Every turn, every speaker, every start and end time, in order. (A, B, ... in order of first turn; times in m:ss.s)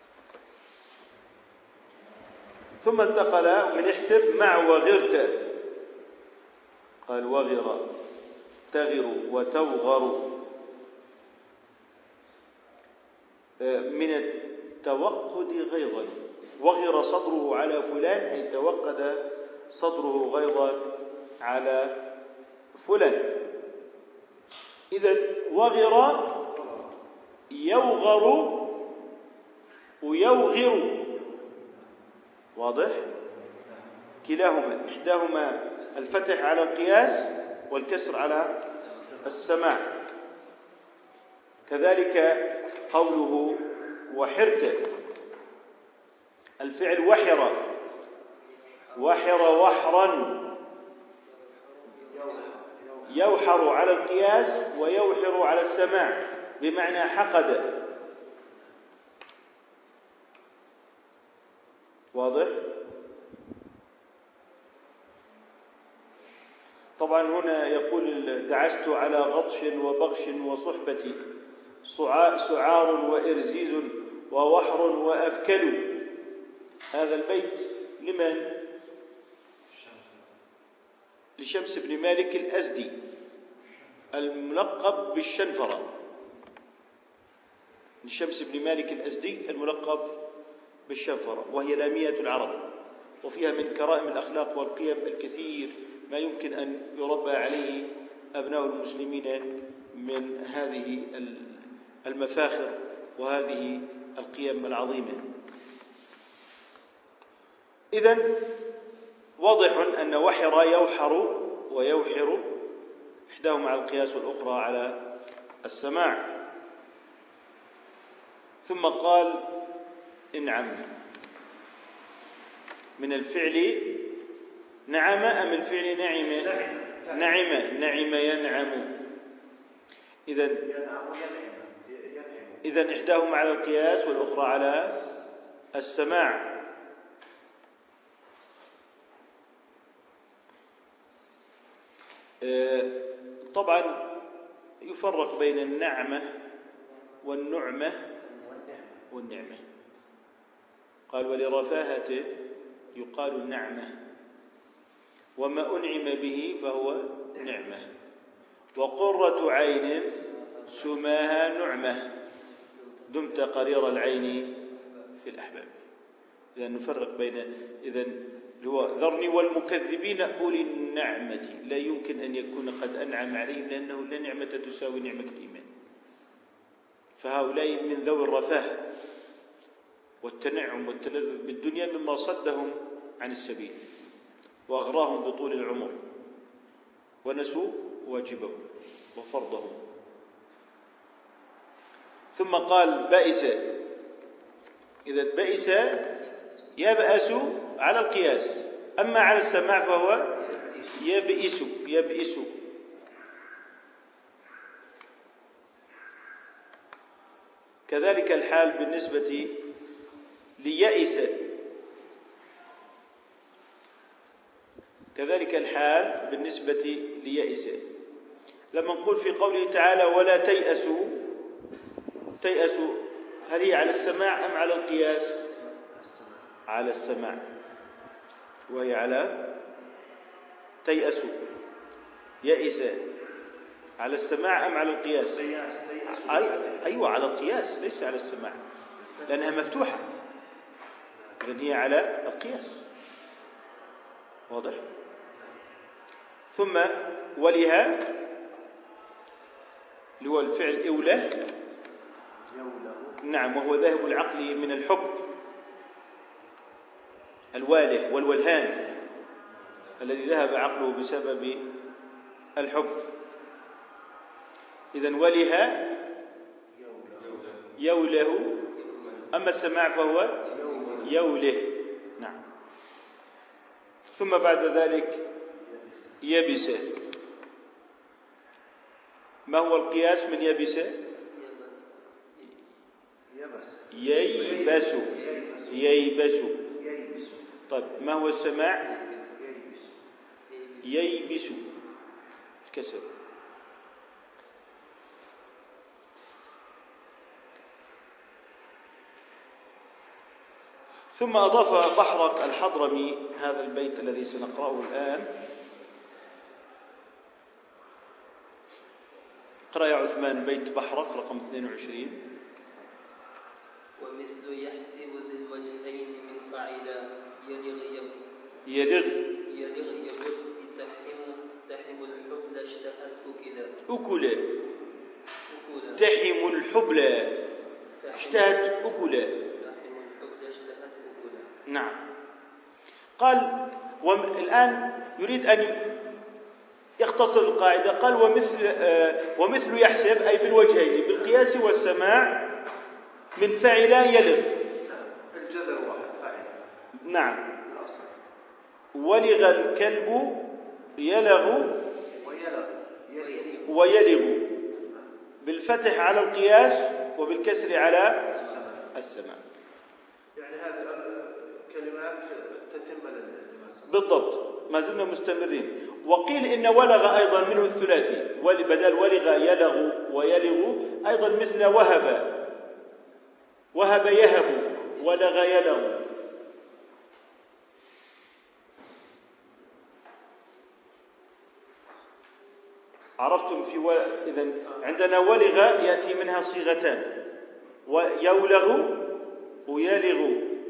0:02.8-0:05.4 A
0:07.1-0:07.9 A
0:08.7-0:10.4 A
0:13.6-0:22.0 A
0:22.7-0:23.4 A
0:24.9-0:26.4 A
0:26.4-0:27.0 B
0:27.5-0:28.8 A
0:30.0-0:31.1 A
0:31.1-0:31.9 B
0:32.6-0:33.1 A
0:33.6-0:34.0 B
0:34.2-0:38.6 A
0:38.7-0:39.2 C
0:38.9-0:39.4 B
0:39.2-0:39.9 A
0:41.7-0:44.9 A
0:46.6-0:47.6 A
0:48.4-0:49.5 C
0:49.0-0:50.5 A
0:51.2-0:52.5 C
0:52.1-0:53.3 B
0:53.1-0:57.8 A
1:02.1-1:02.6 A
1:07.0-1:11.2 A
1:11.9-1:16.0 A
1:16.9-1:18.6 A
1:19.7-1:20.3 B
1:21.4-1:22.9 A
1:24.1-1:25.9 A
1:28.0-1:30.1 A
1:30.9-1:32.7 A
1:33.2-1:45.3 A
1:47.9-1:48.4 A
1:49.4-1:52.5 A
1:53.3-1:55.0 A
1:55.6-1:56.3 A
1:58.6-1:59.5 A
2:00.3-2:00.9 A
2:03.0-2:04.0 A
2:04.9-2:06.6 A
2:06.2-2:07.4 B
2:07.1-2:08.9 A
2:10.3-2:10.6 A
2:10.6-2:12.6 B
2:12.6-2:15.0 A
2:15.8-2:16.5 A
2:22.4-2:23.0 A
2:23.5-2:24.1 A
2:24.8-2:26.3 A
2:26.8-2:27.2 C
2:27.2-2:28.1 A
2:28.2-2:28.6 C
2:28.4-2:29.0 B
2:29.1-2:29.6 A
2:31.1-2:32.3 A
2:32.9-2:34.0 A
2:35.4-2:37.9 A
2:37.3-2:37.8 B
2:38.8-2:40.1 A
2:40.0-2:41.0 C
2:40.7-2:42.1 A
2:42.7-2:43.9 C
2:43.1-2:44.6 A
2:44.5-2:45.1 C
2:45.2-2:45.8 A
2:46.6-2:55.7 A
2:57.2-2:58.9 A
3:00.2-3:03.8 A
3:04.7-3:06.0 A
3:07.2-3:09.8 A
3:12.3-3:13.8 A
3:15.1-3:16.1 A
3:16.1-3:17.1 C
3:16.8-3:20.4 A
3:20.4-3:21.0 C
3:20.9-3:22.6 A
3:27.9-3:29.6 A
3:30.6-3:31.4 A
3:35.1-3:37.8 A
3:38.7-3:41.2 A
3:42.4-3:45.5 A
3:45.8-3:46.5 B
3:46.7-3:47.4 A
3:48.7-3:49.4 A
3:50.8-3:51.4 A
3:52.4-3:53.1 A
3:54.0-3:55.4 A
3:55.2-3:57.0 B
3:56.1-3:58.6 A
3:59.0-3:59.7 B
3:59.3-4:00.1 A
4:01.4-4:02.8 A
4:04.5-4:04.8 A
4:05.3-4:05.6 B
4:06.5-4:08.1 A
4:10.2-4:11.4 A
4:12.5-4:13.2 B
4:13.2-4:15.2 A
4:17.5-4:18.9 A
4:19.5-4:19.8 B
4:20.0-4:21.7 A
4:22.6-4:23.0 A
4:24.9-4:26.0 A
4:26.8-4:27.6 B
4:27.8-4:28.6 A
4:28.7-4:29.3 C
4:29.3-4:30.4 A
4:30.4-4:31.1 C
4:30.5-4:31.2 B
4:31.0-4:32.4 A
4:34.1-4:35.3 A
4:35.6-4:36.2 B
4:36.2-4:36.9 A
4:39.5-4:41.0 A
4:41.3-4:42.6 C
4:43.3-4:46.0 B
4:43.9-4:45.1 A
4:44.1-4:45.9 C
4:45.7-4:46.6 A
4:46.7-4:47.5 B
4:47.7-4:48.9 A
4:48.8-4:49.4 C
4:49.4-4:50.1 B
4:50.5-4:51.2 C
4:50.8-4:51.7 A
4:52.7-4:53.1 A
5:01.1-5:05.3 A
5:09.7-5:12.2 A
5:14.0-5:18.1 C
5:18.7-5:19.3 A
5:19.5-5:23.8 C
5:23.9-5:24.5 A
5:25.5-5:26.0 C
5:26.0-5:27.4 A
5:28.0-5:28.7 C
5:28.1-5:29.4 A
5:29.5-5:31.5 C
5:31.7-5:32.0 A
5:33.2-5:35.9 A
5:37.0-5:42.5 A
5:43.4-5:44.6 A
5:44.8-5:46.6 B
5:47.0-5:47.5 A
5:47.6-5:48.2 B
5:48.9-5:50.4 A
5:51.0-5:51.9 A
5:52.1-5:53.6 B
5:53.2-5:53.9 C
5:53.7-5:54.5 A
5:54.8-5:55.1 B
5:55.4-5:58.4 A
5:58.2-5:58.9 B
5:58.4-5:58.7 C
5:58.9-5:59.4 A
6:00.4-6:04.0 B
6:03.9-6:12.4 A
6:13.8-6:16.0 A
6:23.2-6:27.1 A
6:27.9-6:29.1 A
6:29.7-6:30.5 A